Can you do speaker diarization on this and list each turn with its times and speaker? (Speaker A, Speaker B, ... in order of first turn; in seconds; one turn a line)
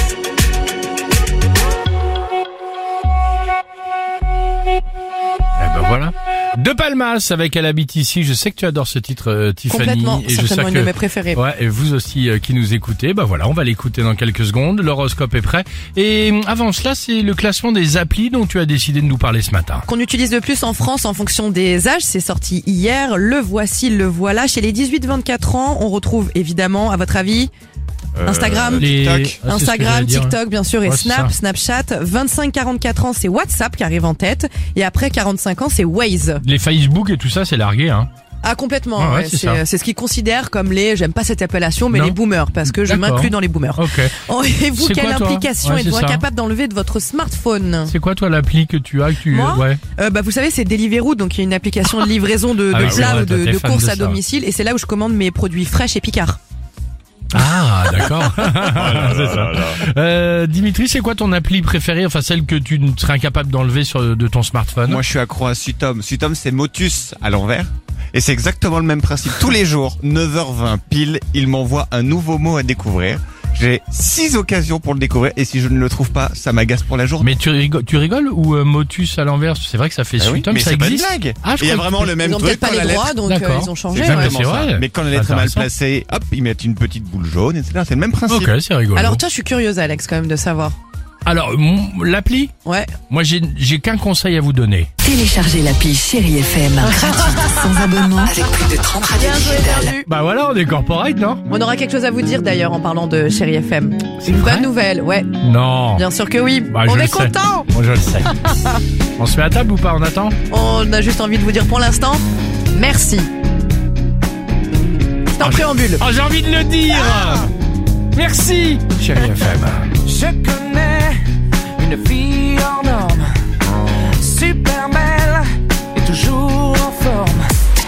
Speaker A: 5.6-19.9
Speaker B: 9.7-11.4
Speaker B: 19.9-27.5
Speaker C: 28.2-29.4
Speaker B: 28.2-28.9
Speaker A: 28.8-31.3
Speaker B: 29.4-36.4
Speaker A: 36.4-38.1
Speaker B: 38.4-47.9
Speaker A: 39.0-39.6
Speaker A: 41.9-44.2
Speaker A: 44.8-46.2
Speaker A: 47.9-49.8
Speaker B: 49.3-56.4
Speaker A: 52.7-54.2
Speaker C: 52.8-53.1
Speaker A: 57.3-65.0
Speaker C: 58.7-59.8
Speaker C: 64.8-77.3
Speaker A: 77.2-82.2
Speaker C: 80.2-83.2
Speaker B: 82.2-84.3
Speaker A: 83.2-85.7
Speaker C: 83.9-88.5
Speaker A: 88.3-89.2
Speaker B: 88.9-90.7
Speaker A: 91.2-92.5
Speaker B: 92.6-92.9
Speaker A: 93.1-94.9
Speaker D: 95.0-99.9
Speaker B: 97.2-97.4
Speaker B: 99.1-100.1
Speaker A: 100.1-101.4
Speaker B: 101.5-105.3
Speaker A: 104.2-104.7
Speaker A: 105.4-106.0
Speaker B: 105.9-107.7
Speaker A: 106.7-108.3
Speaker A: 109.2-110.3
Speaker B: 110.5-113.3
Speaker B: 115.3-116.0
Speaker A: 115.4-117.5
Speaker A: 118.1-120.0
Speaker E: 120.0-121.2
Speaker E: 121.8-123.3
Speaker E: 124.2-127.4